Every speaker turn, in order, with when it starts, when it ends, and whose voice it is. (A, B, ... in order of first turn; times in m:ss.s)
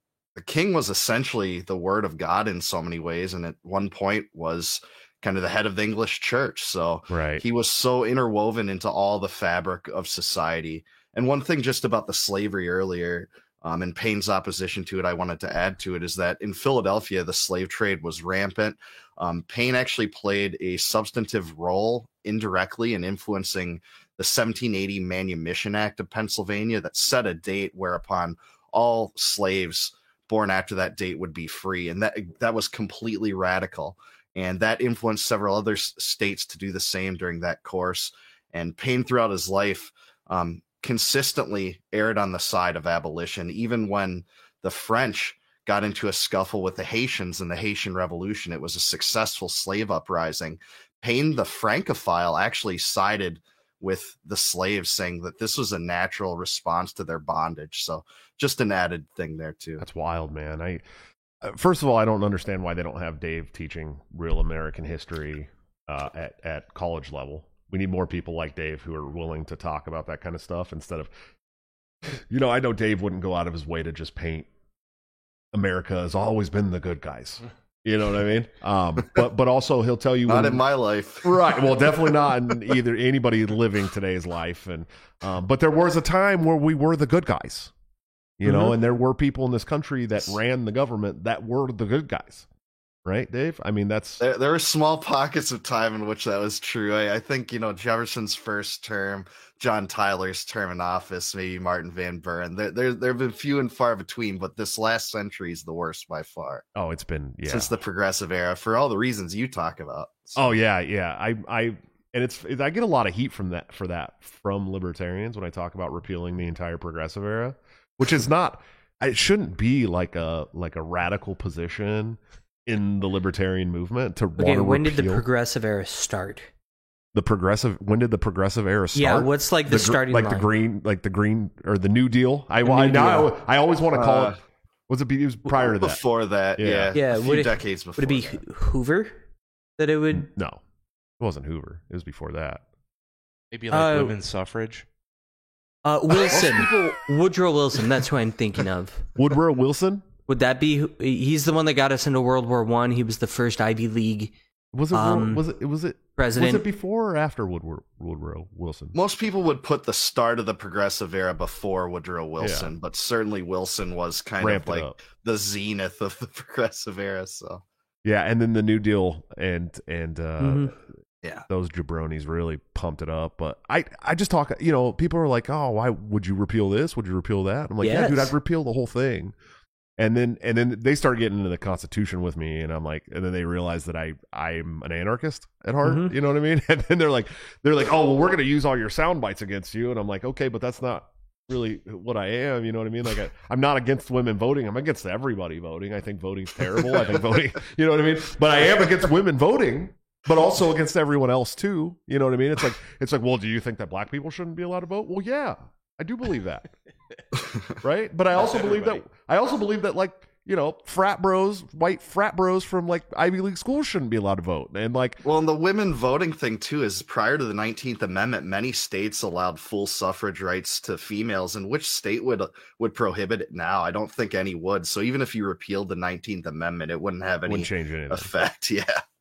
0:00.4-0:59.8 A
0:07.1-0:07.4 B
0:59.8-1:00.8 B
1:01.4-1:11.1 B
1:12.0-1:14.5 B
1:15.5-1:20.6 B
1:20.2-1:21.4 A
1:21.2-1:27.7 B
1:28.4-1:32.4 B
1:28.4-1:28.7 C
1:33.0-1:34.2 B
1:34.2-1:46.6 A
1:46.7-1:47.7 B
1:47.4-1:50.5 A
1:50.4-2:05.2 B
2:04.4-2:06.5 C
2:07.1-2:14.4 B
2:08.9-2:10.5 C
2:12.6-2:13.3 C
2:13.9-2:14.4 A
2:14.9-2:16.0 B
2:15.6-2:18.4 A
2:16.6-2:16.9 B
2:16.9-2:19.1 C
2:19.8-2:20.3 C
2:20.1-2:20.6 B
2:21.2-2:22.6 B
2:23.5-2:24.8 D
2:23.7-2:24.1 C
2:25.8-2:29.0 C
2:26.2-2:27.0 B
2:29.2-2:30.1 B
2:30.3-2:34.3 C
2:34.7-2:38.9 B
2:34.9-2:35.4 C
2:36.2-2:36.6 C
2:38.9-2:47.6 A
2:42.4-2:42.7 B
2:44.4-2:45.0 B
2:48.0-2:50.8 B
2:50.4-2:50.7 C
2:51.5-2:59.3 B
2:57.8-2:58.3 C
3:00.0-3:26.6 B
3:05.8-3:06.1 C
3:27.8-3:35.2 B
3:28.3-3:29.0 D
3:35.2-3:49.0 A
3:47.4-3:48.3 B